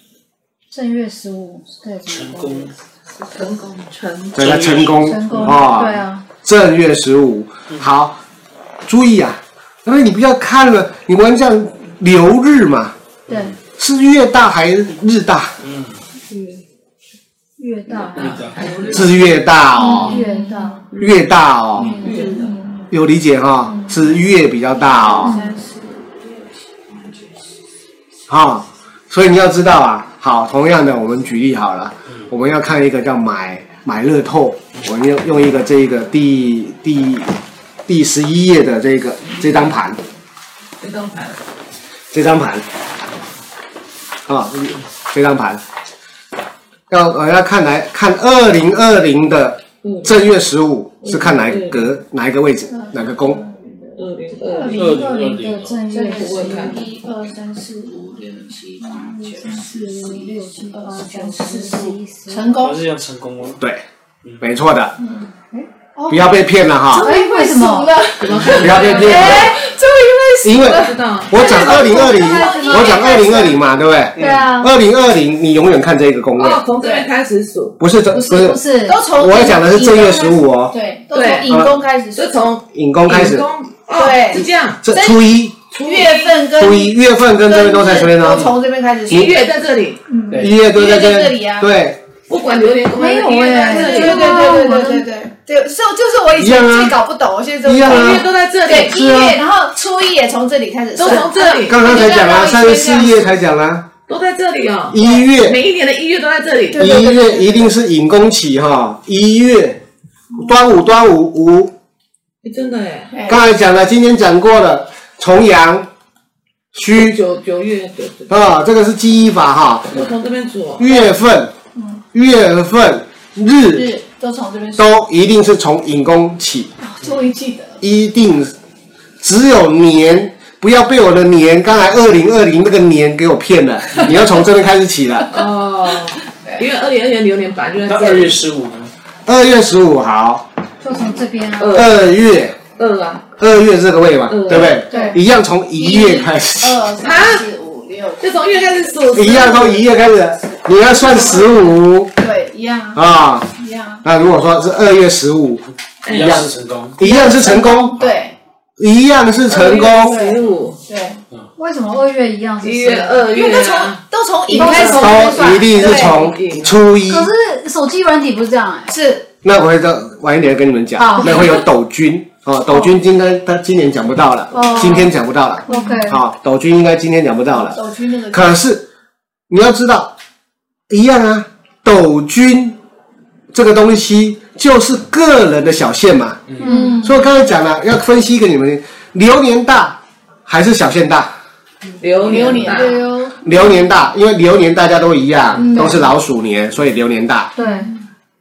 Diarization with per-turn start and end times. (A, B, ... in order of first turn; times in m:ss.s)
0:00.7-0:02.7 A
0:02.1-0:02.7 B
0:03.2-0:04.4 C
0:04.3-0:08.2 D
0:04.4-0:05.5 B
0:05.0-0:06.2 A
0:08.8-0:12.9 D
0:13.3-0:13.5 A
0:13.3-0:13.5 B
0:13.8-0:15.6 D
0:15.6-0:16.0 B
0:17.6-0:18.4 A
0:18.1-0:18.9 B
0:18.2-0:19.4 C
0:18.9-0:20.2 D
0:19.8-0:20.8 A
0:19.8-0:20.8 E
0:20.9-0:21.2 C
0:21.0-0:22.0 D
0:21.8-0:22.5 C
0:21.8-0:22.9 E
0:22.9-0:25.4 D
0:23.7-0:24.0 E
0:24.8-0:27.5 E
0:25.2-0:25.5 A
0:28.3-0:40.0 D
0:40.8-0:41.4 C
0:42.1-0:42.6 D
0:44.3-0:45.6 D
0:46.9-0:53.4 D
0:49.8-0:50.2 C
0:51.0-0:51.9 C
0:52.7-0:55.0 E
0:54.0-0:54.9 C
0:54.6-0:56.7 A
0:54.6-0:55.8 B
0:55.9-1:02.8 E
0:56.1-0:56.9 C
0:58.8-1:02.6 A
1:02.6-1:03.6 B
1:03.6-1:03.8 D
1:04.4-1:05.0 D
1:05.0-1:05.3 E
1:05.5-1:06.1 A
1:06.1-1:07.1 D
1:06.9-1:08.0 A
1:06.9-1:13.6 E
1:08.2-1:09.6 C
1:08.5-1:09.6 D
1:10.4-1:16.6 D
1:10.6-1:12.9 C
1:11.7-1:13.0 A
1:14.2-1:14.7 A
1:16.4-1:17.8 C
1:16.8-1:17.1 E
1:17.8-1:20.8 D
1:18.1-1:19.0 A
1:18.8-1:22.4 E
1:21.1-1:21.6 C
1:21.4-1:21.8 D
1:22.1-1:24.8 C
1:22.7-1:23.5 D
1:23.9-1:25.2 E
1:24.8-1:25.6 D
1:25.7-1:26.5 C
1:25.7-1:29.4 E
1:26.5-1:28.5 D
1:29.0-1:30.0 C
1:30.1-1:31.7 E
1:30.3-1:32.0 D
1:32.3-1:34.6 C
1:32.9-1:35.1 A
1:33.5-1:43.3 E
1:36.3-1:37.0 D
1:37.6-1:38.3 D
1:37.8-1:39.3 C
1:38.8-1:39.4 D
1:41.0-1:42.0 C
1:41.6-1:43.9 D
1:44.1-1:47.1 C
1:44.9-1:45.6 D
1:46.7-1:47.7 E
1:46.7-1:49.8 D
1:50.4-1:51.7 D
1:52.4-1:53.2 C
1:53.1-1:53.4 E
1:53.3-1:55.9 D
1:56.7-1:57.2 D
1:56.9-1:58.3 C
1:58.3-2:00.0 D
1:59.9-2:01.1 C
2:00.8-2:01.5 D
2:01.8-2:02.0 E
2:02.1-2:03.9 D
2:03.7-2:04.9 E
2:04.8-2:06.7 D
2:06.8-2:07.8 E
2:07.8-2:08.5 D
2:09.2-2:15.4 D
2:15.3-2:18.4 C
2:17.9-2:18.9 B
2:19.2-2:20.5 D
2:20.8-2:21.9 A
2:21.6-2:22.0 C
2:21.7-2:22.6 D
2:22.8-2:23.2 C
2:23.4-2:26.9 D
2:24.3-2:24.8 C
2:24.9-2:25.2 E
2:24.9-2:25.2 A
2:25.7-2:28.9 E
2:27.0-2:27.5 C
2:28.2-2:29.8 C
2:29.1-2:32.2 D
2:30.9-2:31.6 E
2:32.2-2:34.0 E
2:32.9-2:33.5 D
2:34.0-2:38.0 D
2:36.0-2:36.4 C
2:36.1-2:37.0 B
2:37.0-2:38.3 E
2:38.8-2:40.2 D
2:39.5-2:40.8 C
2:40.0-2:41.2 E
2:41.6-2:43.3 A
2:42.6-2:44.0 C
2:43.3-2:46.3 E
2:44.5-2:45.6 A
2:44.5-2:47.3 D
2:44.5-2:44.8 C
2:45.6-2:46.8 C
2:47.0-2:48.9 A
2:48.9-2:49.3 E
2:49.4-2:58.9 D
2:51.0-2:51.6 A
2:54.5-2:55.1 A
2:54.5-2:55.0 E
2:55.7-2:56.0 E
2:55.7-2:56.2 A
2:57.6-2:58.6 E
2:59.5-3:00.1 D
3:00.9-3:02.8 D
3:03.5-3:11.3 D
3:06.6-3:07.1 A
3:06.6-3:07.2 E
3:12.0-3:13.1 C
3:12.2-3:13.7 E
3:12.4-3:13.4 A
3:13.4-3:17.5 D
3:15.6-3:16.1 E
3:17.6-3:17.9 A
3:17.6-3:18.0 E